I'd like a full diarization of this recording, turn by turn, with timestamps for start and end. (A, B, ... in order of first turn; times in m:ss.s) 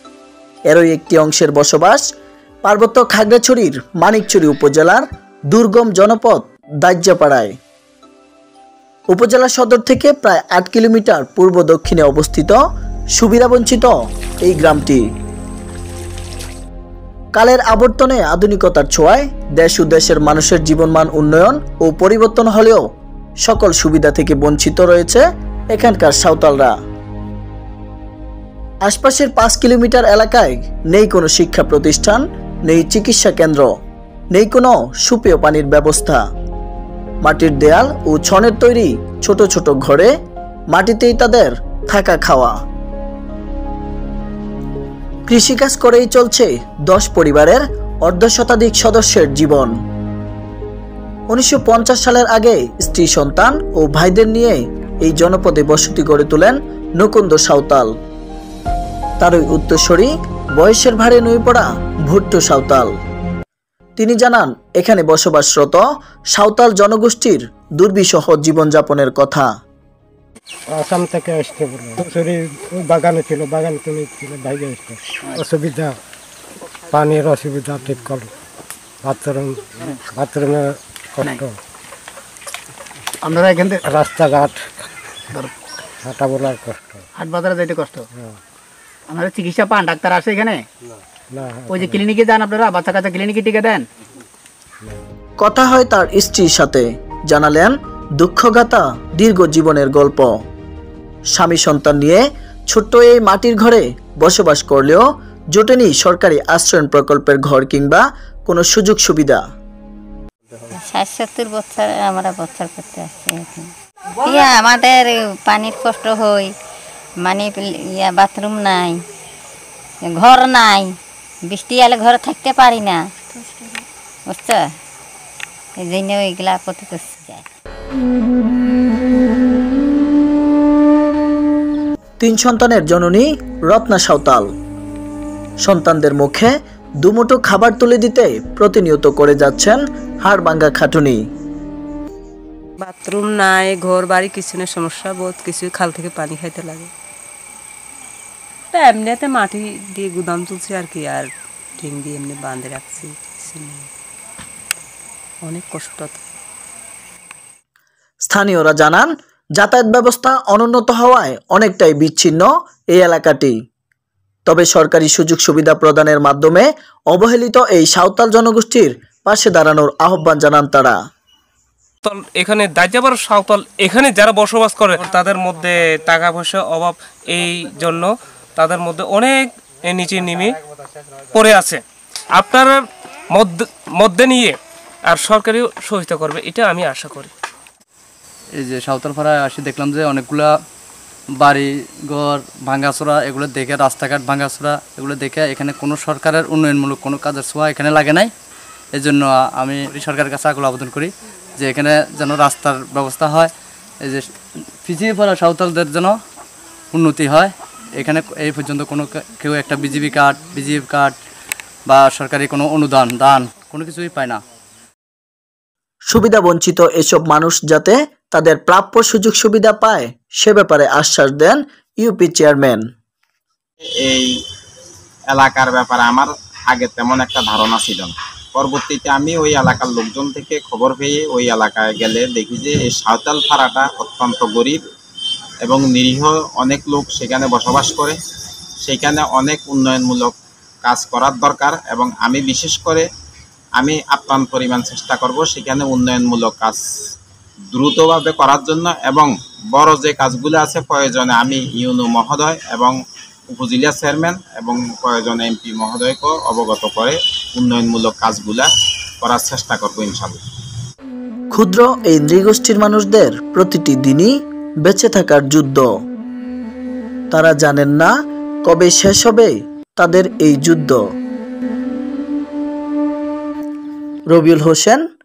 0:00.7-0:02.0 A
0:02.6-0:07.5 A
0:09.1-0:12.6 A
0:13.2-0:15.0 A
0:17.3-0:22.8 A
0:23.4-0:26.8 A
0:28.9-0:33.7 A
0:34.3-0:36.2 A
0:37.2-0:40.1 A
0:40.7-0:42.5 A
0:45.3-0:49.7 A
0:51.3-0:57.9 A
0:59.2-1:02.9 A
1:04.0-1:09.5 A
1:10.7-1:16.0 B
1:16.9-1:18.3 B
1:19.0-1:21.6 B
1:23.2-1:23.8 C
1:23.8-1:24.7 B
1:26.0-1:27.0 B
1:27.2-1:28.0 C
1:29.1-1:30.6 C
1:31.3-1:32.0 B
1:31.7-1:33.8 C
1:35.4-1:40.3 A
1:41.4-1:49.4 A
1:50.7-1:53.7 D
1:54.2-1:56.5 D
1:57.2-1:59.0 D
2:00.0-2:00.9 D
2:01.5-2:03.1 D
2:04.3-2:04.7 D
2:05.8-2:07.4 D
2:12.2-2:14.5 A
2:15.6-2:21.2 A
2:22.8-2:26.9 E
2:28.7-2:33.9 E
2:35.4-2:36.2 E
2:38.3-2:43.6 A
2:44.5-2:51.0 A
2:52.0-3:00.6 F
3:01.3-3:01.8 F
3:02.4-3:07.3 F
3:08.6-3:10.5 G
3:11.4-3:18.3 G
3:19.0-3:23.5 G
3:24.8-3:26.2 G
3:26.9-3:31.2 G
3:31.9-3:34.4 G
3:36.1-3:42.8 A
3:44.0-3:44.3 H
3:45.3-3:54.8 H
3:55.6-3:58.2 H
3:58.8-4:00.3 H
4:00.8-4:03.1 H
4:03.8-4:06.8 H
4:07.7-4:13.0 H
4:13.5-4:18.7 H
4:19.2-4:20.4 H
4:21.5-4:25.9 A
4:27.3-4:28.1 A
4:28.7-4:31.0 A
4:34.3-4:35.0 A